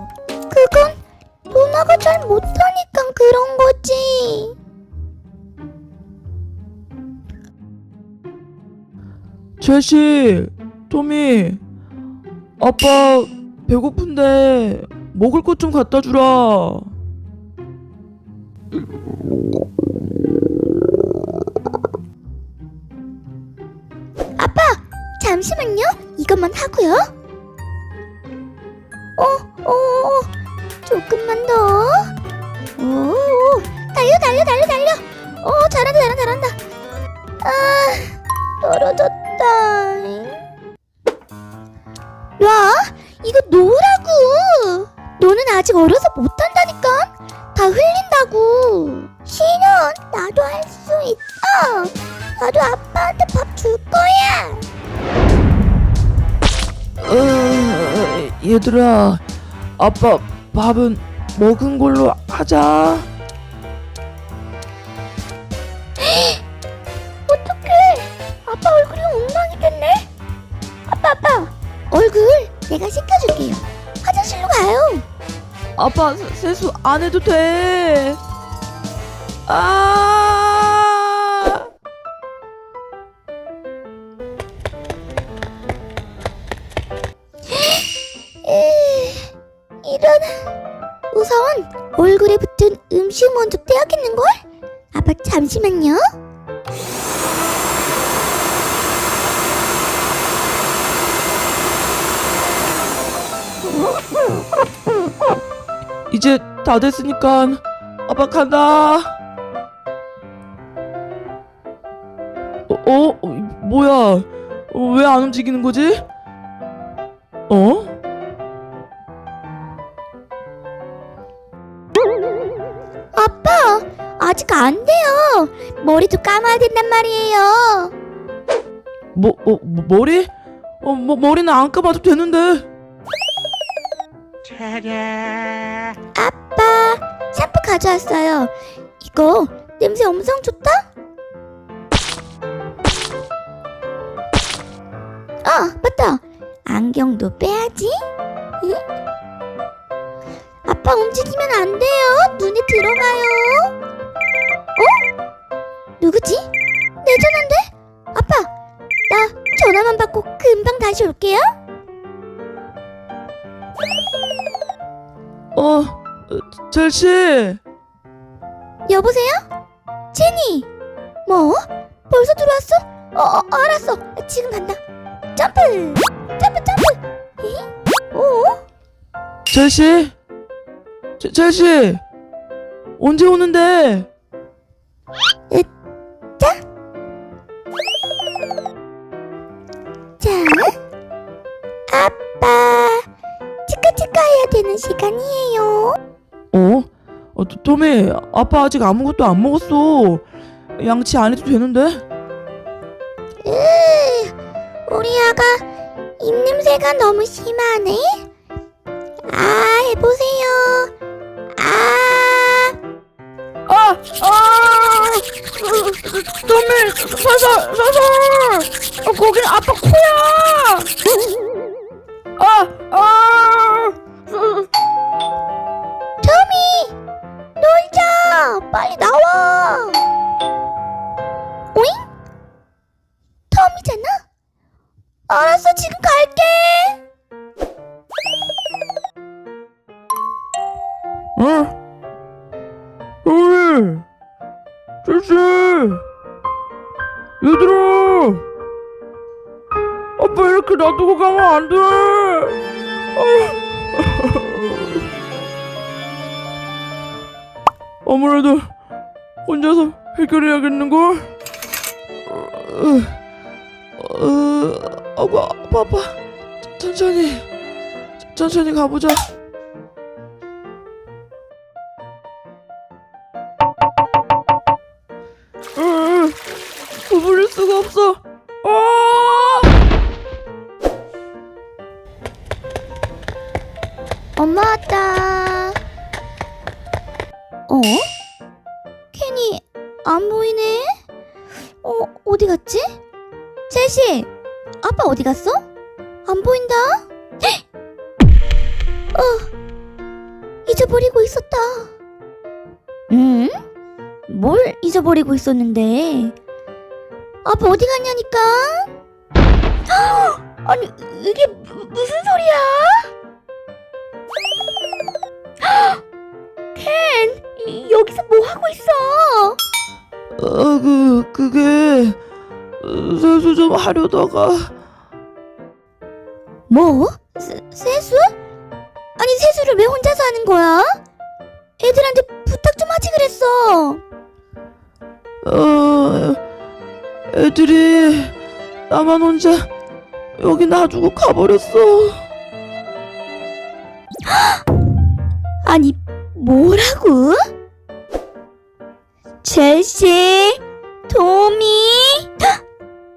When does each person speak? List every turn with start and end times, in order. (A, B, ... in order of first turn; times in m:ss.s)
0:00.5-0:04.5 A
0:09.6-0:11.6 B
0:12.6-0:16.9 B
0:24.4-0:27.1 A
0:29.2-0:30.3 A
0:30.8-0:32.1 A
0:32.8-0:36.6 A
0:37.4-0:40.4 A
0:42.4-0:54.6 A
0:57.0-0:59.2 B
0:59.8-1:03.1 B
1:06.0-1:06.4 A
1:07.3-1:10.1 A
1:10.9-1:15.0 A
1:15.8-1:18.2 B
1:19.5-1:21.7 B
1:27.5-1:27.9 A
1:28.4-1:29.3 A
1:29.8-1:30.5 A
1:31.1-1:34.4 A
1:34.9-1:36.0 A
1:46.1-1:49.2 B
1:52.7-1:56.0 B
1:57.5-1:57.9 B
2:03.1-2:07.9 A
2:09.1-2:10.3 B
2:10.8-2:12.6 B
2:16.1-2:20.9 A
2:25.4-2:28.0 A
2:30.6-2:33.7 A
2:34.8-2:35.1 A
2:36.0-2:36.5 A
2:37.0-2:38.5 A
2:39.1-2:41.5 A
2:45.5-2:47.6 B
2:48.9-2:49.4 A
2:50.1-2:50.7 A
2:51.2-2:54.8 A
2:55.3-2:58.6 A
2:59.5-3:00.1 B
3:01.2-3:02.0 B
3:03.0-3:04.1 B
3:10.2-3:10.8 A
3:11.9-3:13.0 A
3:13.7-3:16.0 A
3:16.5-3:20.2 B
3:20.8-3:22.0 B
3:23.4-3:24.4 A
3:24.9-3:25.6 A
3:26.2-3:28.2 A
3:29.3-3:30.9 A
3:31.5-3:32.8 A
3:33.7-3:40.9 B
3:42.4-3:44.7 B
3:46.2-3:46.9 A
3:47.6-3:50.0 A
3:51.7-3:52.1 A
3:53.5-3:54.2 A
3:55.3-3:57.0 A
4:01.4-4:01.7 B
4:03.2-4:04.0 B
4:05.0-4:06.0 B
4:07.4-4:08.4 B
4:10.2-4:12.6 B
4:13.1-4:15.1 B
4:18.0-4:18.7 B
4:19.4-4:21.3 B
4:22.2-4:23.2 B
4:24.0-4:26.2 B
4:26.7-4:27.5 B
4:28.3-4:29.3 B
4:35.8-4:36.4 B
4:36.9-4:39.7 B
4:44.4-4:45.8 A
4:47.7-4:48.1 A
4:49.1-4:51.0 A
4:51.8-4:52.9 A
4:53.7-4:54.3 A
4:54.8-4:55.6 A
4:56.2-4:57.6 A
4:59.1-4:59.5 A
5:00.6-5:01.9 A
5:03.1-5:03.6 A
5:04.3-5:06.3 A
5:07.4-5:08.9 A
5:09.9-5:13.1 A
5:15.6-5:16.0 A
5:16.7-5:19.6 A
5:20.4-5:22.2 B
5:22.8-5:24.7 B
5:26.7-5:28.3 A
5:29.2-5:31.0 A
5:31.8-5:34.0 A
5:35.4-5:36.4 B
5:37.3-5:38.3 B
5:38.9-5:39.7 B
5:40.4-5:42.2 B
5:44.3-5:44.6 A
5:45.6-5:47.5 A
5:49.4-5:52.6 A